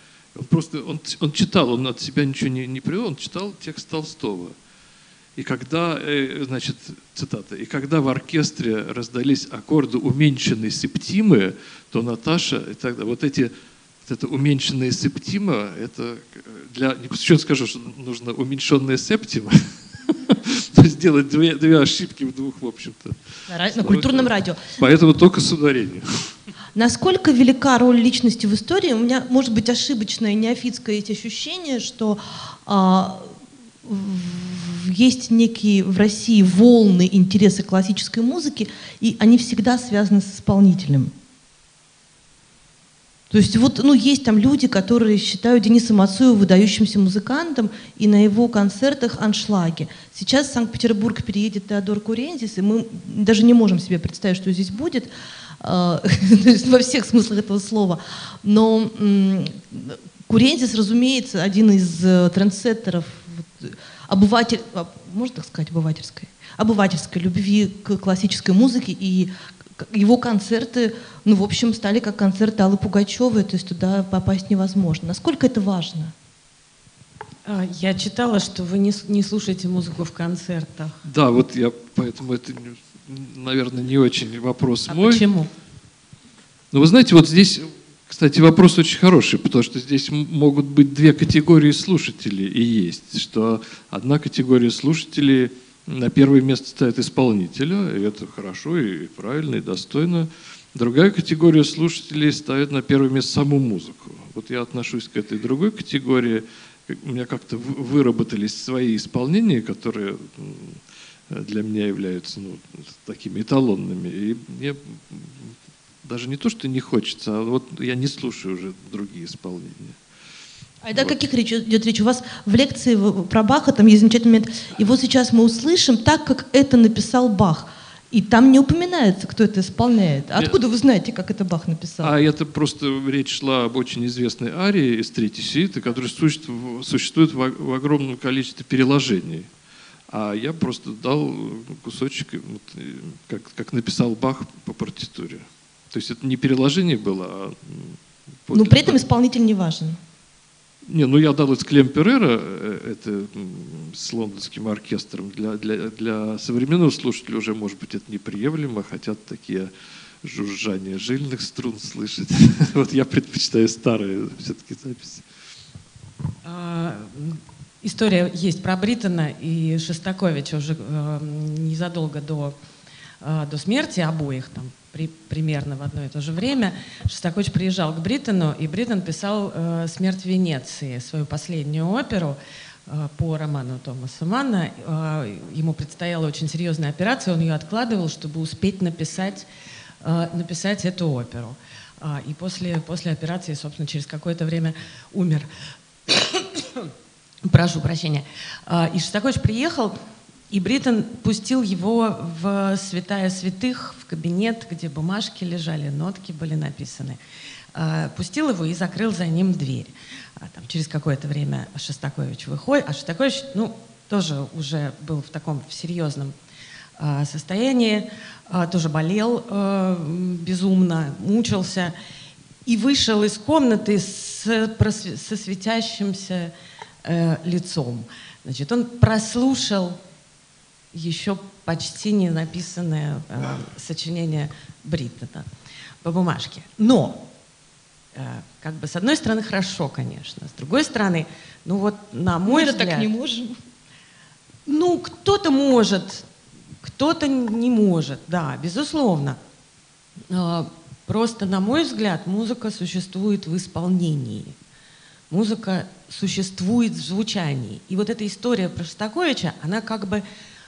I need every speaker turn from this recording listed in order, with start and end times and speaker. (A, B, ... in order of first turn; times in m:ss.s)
0:00.3-0:04.6 A
0:05.4-0:26.3 A
0:23.5-0:24.8 B
0:26.7-0:41.1 B
0:43.3-1:16.1 B
1:17.4-1:21.0 C
1:21.0-1:25.3 A
1:24.9-1:25.5 B
1:26.7-2:00.0 A
2:00.8-2:12.1 B
2:10.3-2:10.6 A
2:12.0-2:19.5 A
2:20.1-2:29.0 A
2:28.5-2:30.0 B
2:30.8-2:39.7 A
2:40.2-2:45.2 A
2:46.4-2:52.6 C
2:53.2-3:09.5 C
3:10.0-3:15.5 C
3:16.0-3:16.9 C
3:17.4-3:20.0 C
3:20.5-3:27.2 C
3:27.7-3:36.3 C
3:37.0-3:41.9 C
3:42.6-3:50.0 C
3:50.9-3:55.5 C
3:56.0-3:57.3 C
3:58.1-4:03.1 C
4:02.4-4:03.6 B
4:04.6-4:06.3 C
4:06.8-4:09.4 C
4:10.3-4:14.5 C
4:15.3-4:20.2 C